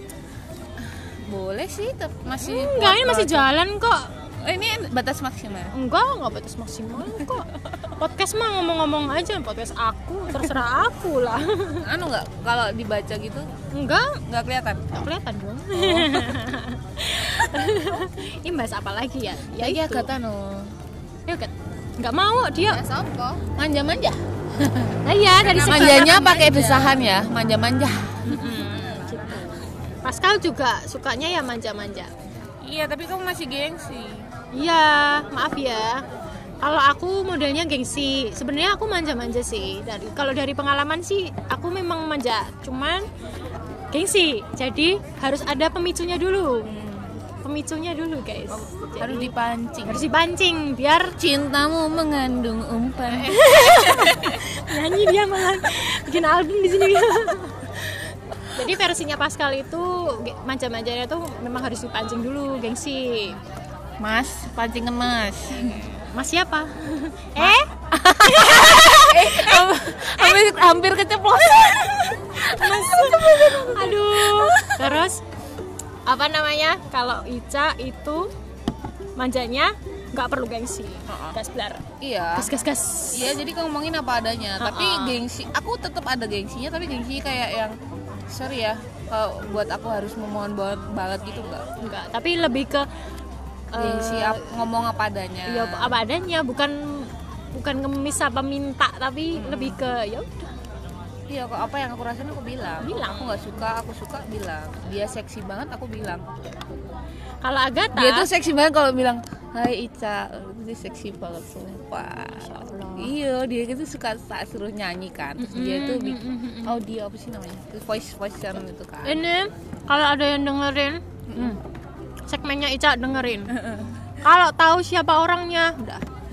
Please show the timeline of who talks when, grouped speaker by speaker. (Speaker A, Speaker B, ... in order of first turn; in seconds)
Speaker A: 0.8-3.5, 4.4-5.7, 7.0-7.3, 11.8-13.5, 14.3-14.9, 15.8-16.3, 19.6-20.8, 23.6-25.0, 25.6-28.5, 32.6-34.3, 46.6-47.1, 49.0-50.1, 51.2-53.5, 64.0-65.9, 67.4-75.0, 81.1-81.4, 82.0-82.5, 83.1-87.8, 88.3-91.7, 93.8-96.0, 99.4-99.8, 101.3-106.2, 107.9-119.2, 121.3-121.6, 123.5-124.0
Speaker B: 2.4-4.1, 5.7-11.8, 13.7-14.2, 14.9-20.1, 21.3-22.8, 25.1-26.6, 28.2-32.1, 34.5-36.0, 36.6-43.1, 43.9-46.7, 47.4-49.3, 49.9-51.1, 53.1-63.4, 65.8-70.4, 72.4-75.2, 76.1-78.3, 79.2-81.8, 82.3-83.4, 84.6-85.2, 91.8-92.9, 93.7-94.5, 95.5-100.5, 102.8-103.5, 107.4-108.3, 112.4-113.1, 115.4-116.8, 119.0-121.6, 122.3-123.6, 124.2-126.0
Speaker C: 22.7-23.4, 25.4-27.0, 28.4-29.0